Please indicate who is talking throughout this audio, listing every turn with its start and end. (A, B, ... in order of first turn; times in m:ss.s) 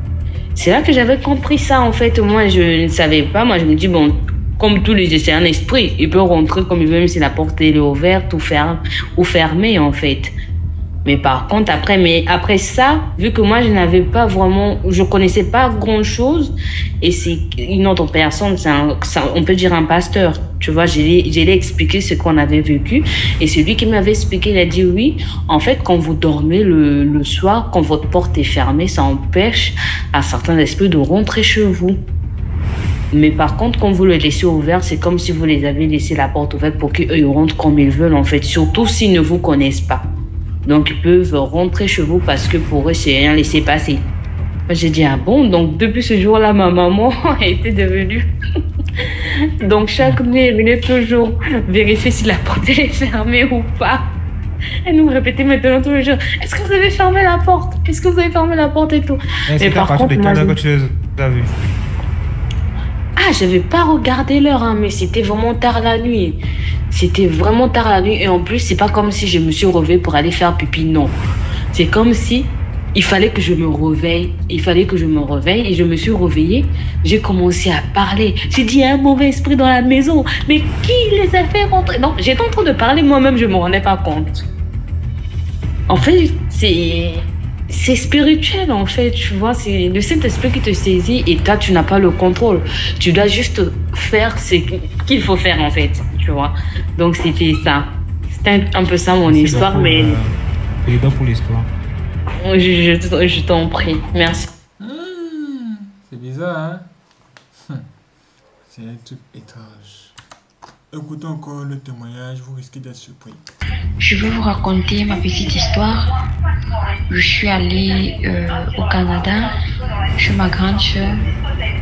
0:00.5-0:10.3 A
0:11.0-0:32.0 A
0:33.1-0:40.0 A
0:40.6-0:44.0 A
0:44.7-0:48.2 A
0:49.6-0:54.0 A
0:54.8-1:00.5 A
0:59.5-1:01.5 B
1:03.2-1:06.4 A
1:06.9-1:11.2 A
1:11.7-1:24.4 A
1:25.9-1:40.2 A
1:39.3-1:40.3 B
1:40.8-1:41.7 B
1:42.4-1:44.5 A
1:44.8-1:46.9 C
1:48.6-1:50.1 C
1:50.9-1:53.4 C
1:54.0-1:56.1 D
1:57.1-1:59.5 D
2:00.2-2:01.2 D